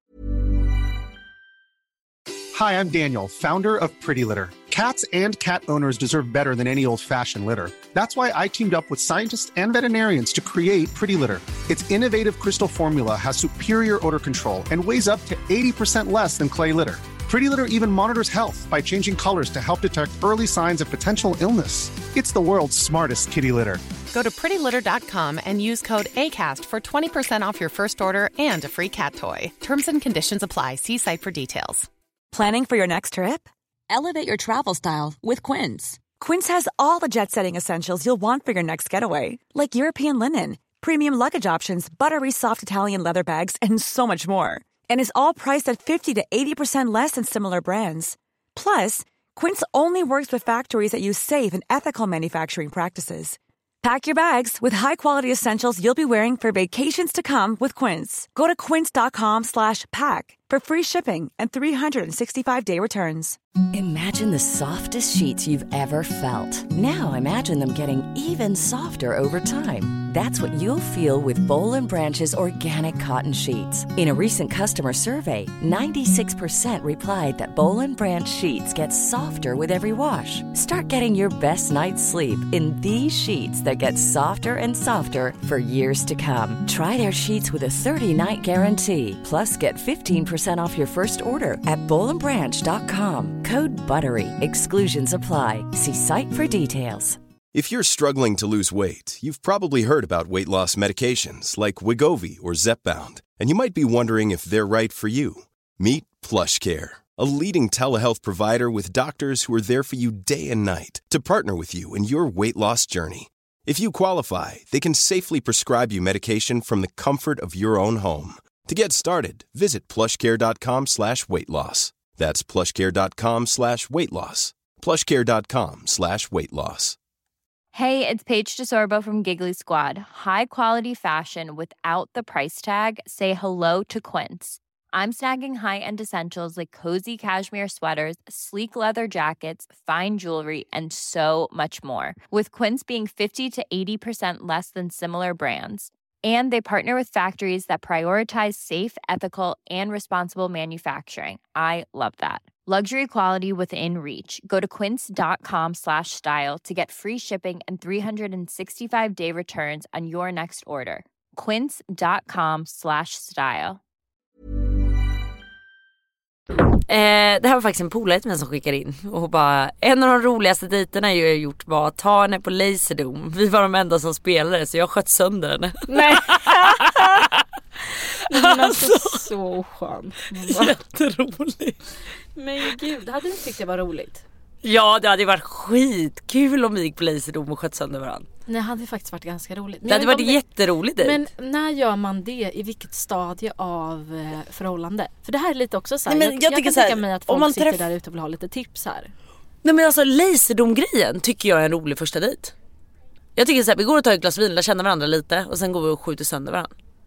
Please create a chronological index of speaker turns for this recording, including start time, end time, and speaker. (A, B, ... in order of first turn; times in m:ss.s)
0:02.5-0:23.8 A
0:24.1-0:31.9 B
0:32.3-1:03.4 C
1:03.7-1:37.2 D
1:37.5-2:07.0 E
2:07.7-2:43.8 F
2:46.9-2:57.4 G
2:55.9-2:57.2 H
2:58.3-3:00.8 H
2:58.3-2:59.3 G
3:00.4-3:01.8 G
3:02.4-3:04.2 H
3:04.6-3:08.3 G
3:08.5-3:10.4 H
3:09.9-3:11.2 G
3:11.0-3:19.1 H
3:16.1-3:17.8 G
3:19.6-3:22.5 G
3:23.4-3:26.7 G